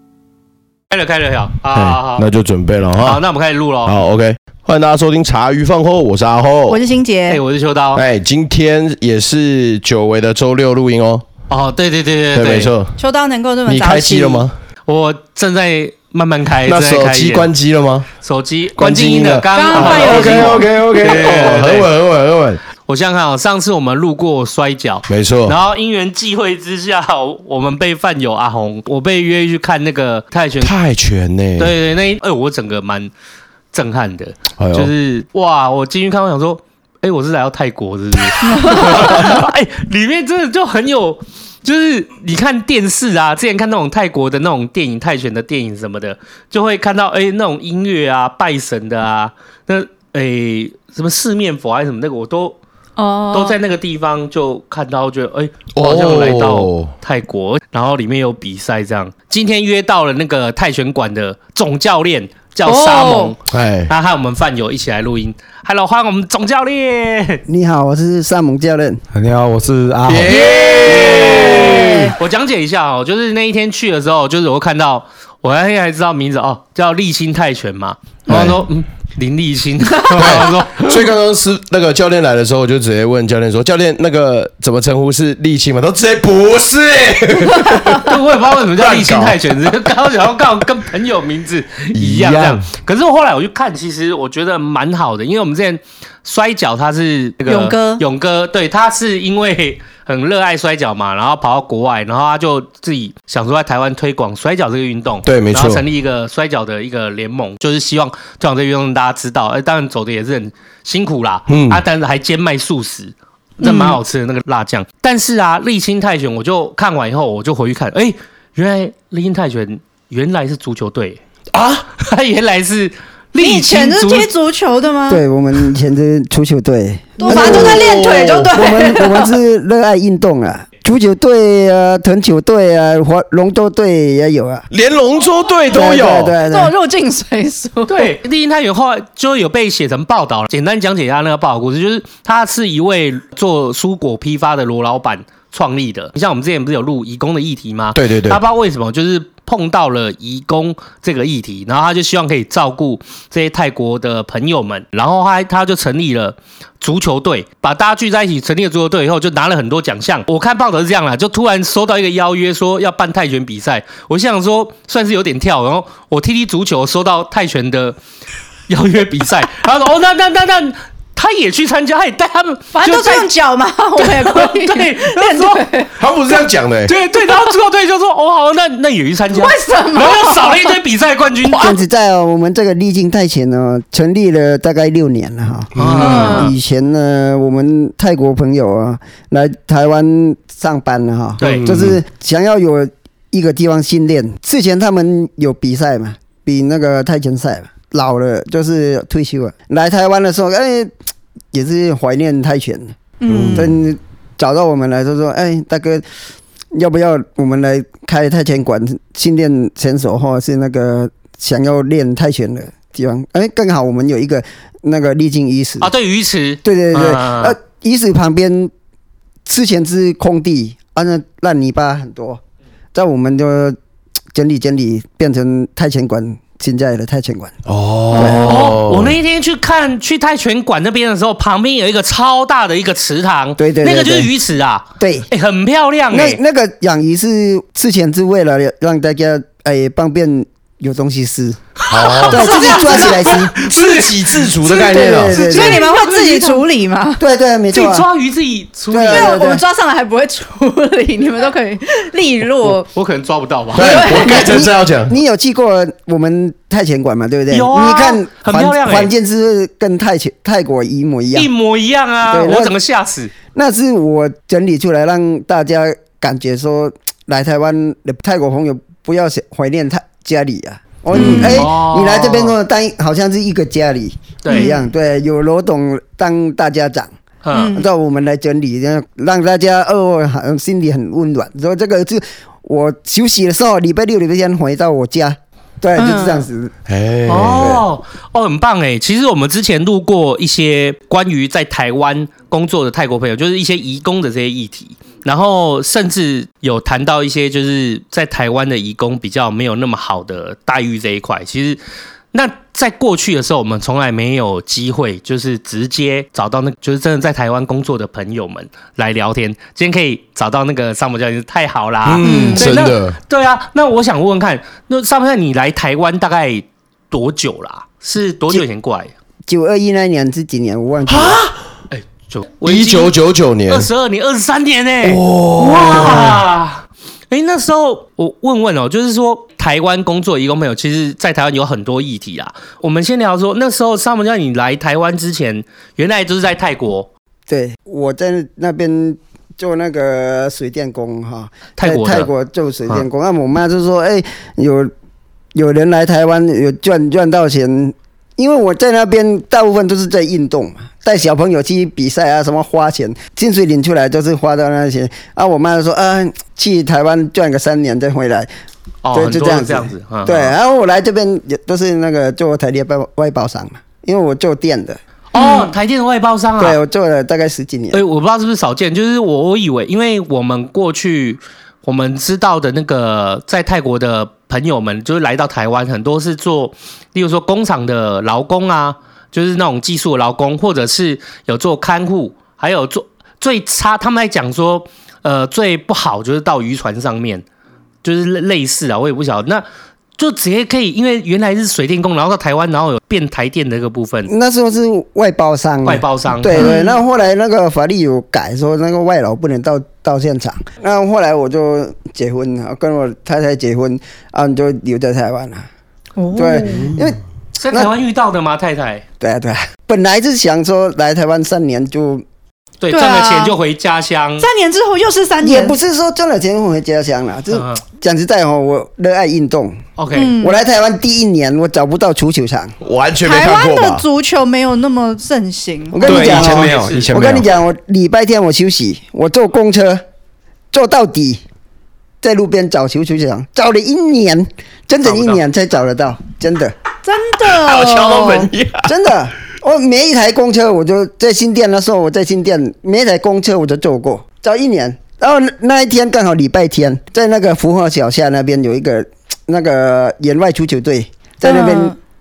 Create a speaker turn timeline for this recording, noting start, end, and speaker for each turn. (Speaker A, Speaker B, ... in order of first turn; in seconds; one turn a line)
Speaker A: 0.9-2.3
Speaker B: 1.7-3.2
Speaker A: 3.0-4.0
Speaker B: 3.8-6.8
Speaker C: 6.7-7.4
Speaker A: 7.3-8.0
Speaker B: 7.9-11.2
Speaker A: 11.5-12.7
Speaker B: 12.3-13.0
Speaker C: 13.0-14.4
Speaker B: 13.7-14.5
Speaker A: 14.8-17.5
Speaker B: 16.6-18.1
Speaker A: 18.2-21.9
Speaker B: 18.8-22.6
Speaker C: 19.5-20.7
Speaker A: 22.9-30.7
Speaker B: 25.1-25.6
Speaker B: 30.6-31.7
Speaker A: 31.6-33.1
Speaker A: 33.7-52.6
Speaker B: 34.6-34.9
Speaker C: 38.4-39.3
Speaker C: 53.0-53.5
Speaker A: 53.3-67.4
Speaker B: 55.7-56.9
Speaker C: 62.6-63.3
Speaker B: 63.5-63.9
Speaker D: 67.5-69.0
Speaker E: 69.1-70.5
Speaker B: 70.0-72.2
Speaker C: 70.3-70.7
Speaker A: 70.8-81.1
Speaker C: 71.3-72.1
Speaker B: 78.3-78.6
Speaker C: 80.0-80.4
Speaker B: 80.1-89.8
Speaker A: 88.0-121.2
Speaker B: 91.9-92.6
Speaker C: 97.5-98.0
Speaker B: 105.2-105.8
Speaker B: 111.5-111.8
Speaker C: 113.6-114.0
Speaker B: 121.5-121.8
Speaker A: 121.9-124.3
Speaker C: 123.4-125.2
Speaker D: 125.1-134.7
Speaker C: 127.2-129.3
Speaker B: 127.3-128.5
Speaker B: 134.7-136.3
Speaker D: 135.7-136.7
Speaker C: 136.5-138.1
Speaker A: 137.9-168.0
Speaker B: 147.9-148.4
Speaker A: 168.7-173.3
Speaker C: 172.7-175.9
Speaker A: 174.0-175.7
Speaker B: 176.0-176.9
Speaker A: 176.8-181.8
Speaker C: 179.3-180.8
Speaker D: 181.5-200.9
Speaker A: 185.7-186.5
Speaker B: 185.8-186.2
Speaker C: 186.0-186.5
Speaker A: 191.4-191.7
Speaker B: 191.4-192.0
Speaker D: 201.5-202.9
Speaker C: 203.2-203.7
Speaker B: 203.3-203.7
Speaker D: 203.5-206.0
Speaker D: 206.7-215.9
Speaker A: 215.8-217.5
Speaker D: 216.6-218.7
Speaker D: 219.4-222.4
Speaker D: 222.9-223.8
Speaker D: 224.3-227.6
Speaker B: 227.7-229.1
Speaker A: 228.1-236.4
Speaker D: 228.1-228.6
Speaker D: 233.6-234.3
Speaker D: 235.0-235.3
Speaker D: 236.1-241.6
Speaker A: 241.8-246.6
Speaker B: 241.9-242.7
Speaker D: 242.3-243.5
Speaker C: 242.3-243.3
Speaker B: 243.6-245.4
Speaker D: 244.7-245.8
Speaker C: 245.4-247.2
Speaker D: 247.2-248.1
Speaker A: 247.7-249.4
Speaker D: 248.9-249.6
Speaker C: 249.1-252.9
Speaker A: 252.6-254.1
Speaker B: 253.7-255.2
Speaker C: 253.7-254.6
Speaker D: 254.2-261.5
Speaker A: 257.5-259.1
Speaker A: 261.3-263.3
Speaker D: 262.2-262.7
Speaker D: 263.5-277.1
Speaker A: 271.1-272.5
Speaker C: 271.1-271.7
Speaker A: 274.4-274.7
Speaker C: 274.5-274.8
Speaker A: 277.4-277.8
Speaker C: 277.5-277.9
Speaker D: 277.7-286.7
Speaker C: 285.9-286.4
Speaker B: 286.9-287.8
Speaker A: 287.2-301.8
Speaker A: 302.3-319.1
Speaker B: 312.1-313.2
Speaker C: 312.2-312.7
Speaker D: 319.4-321.4
Speaker B: 321.1-321.5
Speaker A: 321.9-323.1
Speaker B: 322.6-323.9
Speaker A: 323.6-337.1
Speaker B: 325.0-326.4
Speaker D: 337.5-344.9
Speaker A: 341.8-342.3
Speaker D: 345.5-358.5
Speaker A: 359.0-360.5
Speaker D: 359.1-365.0
Speaker A: 365.3-366.8
Speaker C: 365.3-365.7
Speaker D: 366.6-368.0
Speaker A: 367.9-387.4
Speaker A: 388.0-389.6
Speaker A: 390.1-394.3
Speaker D: 394.2-405.7
Speaker A: 395.8-396.7
Speaker C: 396.5-397.0
Speaker C: 406.1-406.9
Speaker D: 406.3-407.2
Speaker A: 407.6-409.0
Speaker D: 409.2-412.2
Speaker A: 412.8-414.5
Speaker C: 412.9-413.6
Speaker C: 414.4-415.8
Speaker D: 415.4-419.8
Speaker A: 417.5-417.8
Speaker A: 420.0-420.3
Speaker C: 420.1-420.6
Speaker D: 420.3-422.7
Speaker B: 422.8-424.0
Speaker C: 423.2-426.3
Speaker D: 425.9-430.0
Speaker E: 426.0-427.5
Speaker A: 426.1-427.2
Speaker D: 430.7-431.4
Speaker D: 432.2-436.7
Speaker A: 435.1-435.4
Speaker C: 437.0-438.5
Speaker B: 437.4-438.9
Speaker D: 438.8-451.9
Speaker C: 451.4-451.9